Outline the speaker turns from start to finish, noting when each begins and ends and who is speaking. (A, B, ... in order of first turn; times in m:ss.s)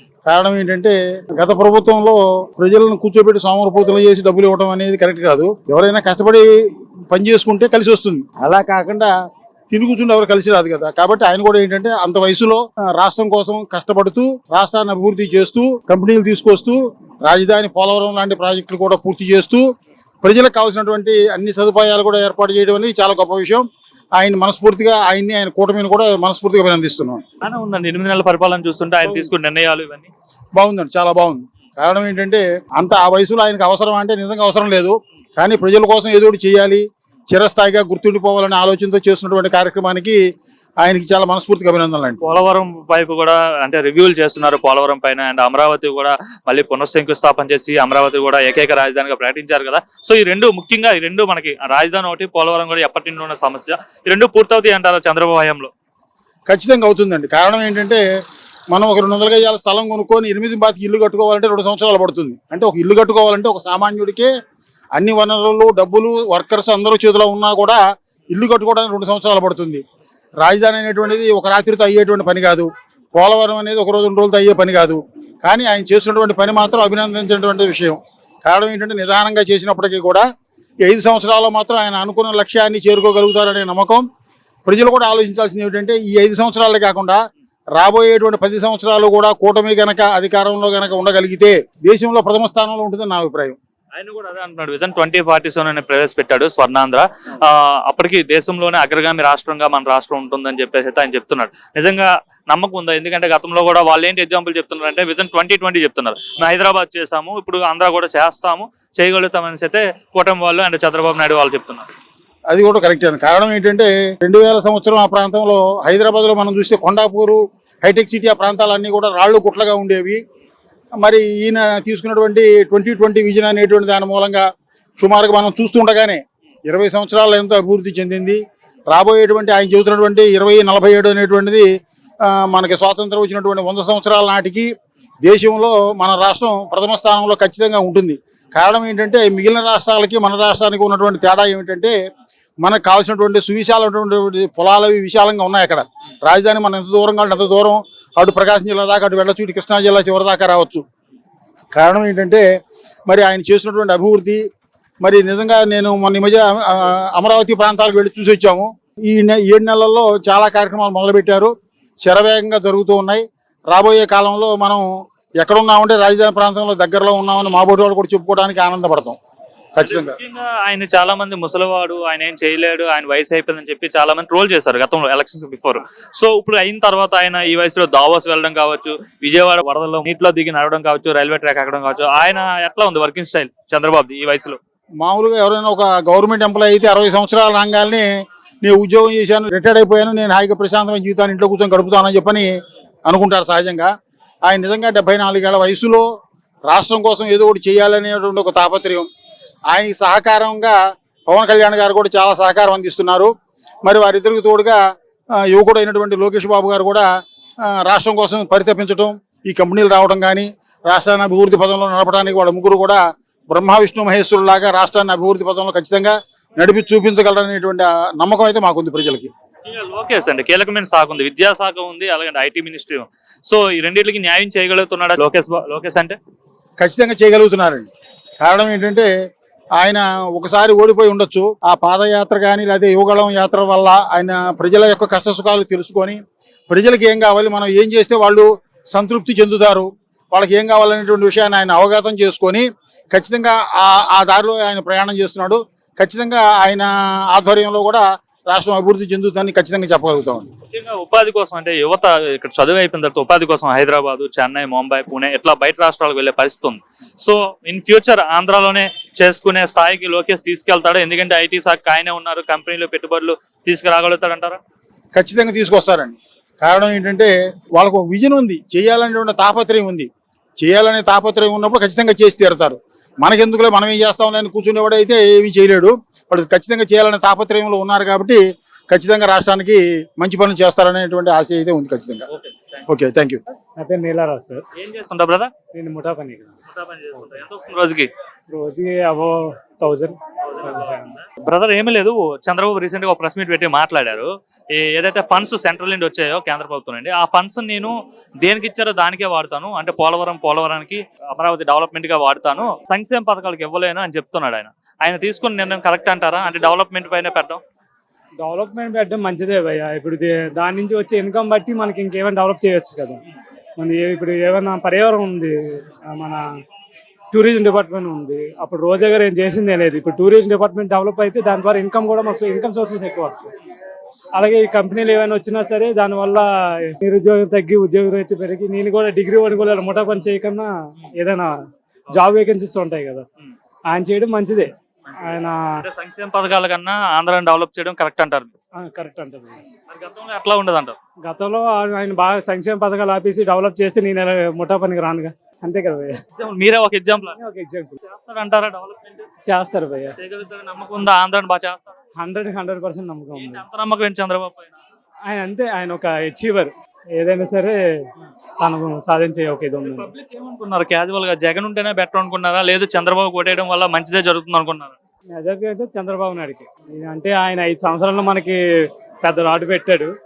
0:00.3-0:06.5 A
0:07.1-0:09.1 A
0:09.7-0:19.6 A
0:20.2-0:23.6 A
0:24.2-0:27.2 A
0:27.4-0:30.1 B
0:29.0-0:29.3 A
0:30.6-0:40.2 A
0:40.8-0:42.2 A
0:42.2-0:55.7 B
0:56.5-0:58.0 A
0:58.7-1:04.3 A
1:05.0-1:07.8 A
1:08.3-1:09.8 A
1:10.4-1:20.2 A
1:20.8-1:24.0 A
1:24.7-1:27.2 A
1:27.8-1:33.6 A
1:34.0-1:51.9 B
1:52.5-2:00.2 A
2:01.0-2:04.4 A
2:05.0-2:11.7 A
2:12.2-2:14.7 A
2:15.2-2:21.9 A
2:22.6-2:30.8 A
2:31.7-2:32.4 A
2:33.1-2:34.4 A
2:35.0-2:41.5 A
2:42.0-2:44.8 A
2:45.4-2:49.2 A
2:49.8-2:50.2 A
2:49.8-3:04.6 B
3:05.0-3:08.1 A
3:08.6-3:12.5 A
3:13.1-3:13.9 A
3:14.5-3:16.0 A
3:16.7-3:19.1 A
3:19.7-3:20.8 A
3:21.3-3:23.3 A
3:23.8-3:24.8 A
3:25.4-3:27.1 A
3:27.7-3:33.0 A
3:33.5-3:39.3 A
3:39.7-3:46.2 B
3:46.8-3:47.9 A
3:48.4-3:49.1 A
3:49.8-3:56.2 A
3:56.7-4:10.5 A
4:10.7-4:24.6 B
4:25.2-4:30.1 A
4:30.6-4:42.3 A
4:42.3-4:42.9 B
4:42.9-4:43.4 A
4:43.8-4:44.6 C
4:44.7-4:45.5 B
4:45.7-4:46.5 C
4:46.7-4:48.1 B
4:48.5-4:51.1 C
4:50.4-5:07.6 B
5:08.4-5:13.2 C
5:13.8-5:16.4 C
5:17.3-5:23.5 C
5:24.4-5:31.6 C
5:32.1-5:33.2 C
5:33.9-5:35.6 C
5:35.8-5:38.5 B
5:38.8-5:39.6 C
5:39.9-5:41.0 B
5:41.2-5:46.2 C
5:46.4-5:47.4 B
5:47.3-5:48.0 C
5:48.0-5:49.3 B
5:49.5-5:50.2 C
5:50.2-5:52.0 B
5:52.2-5:53.6 C
5:53.3-5:54.8 B
5:55.3-5:57.8 C
5:58.6-6:00.1 C
5:59.8-6:05.0 B
6:05.4-6:08.6 C
6:09.2-6:10.1 C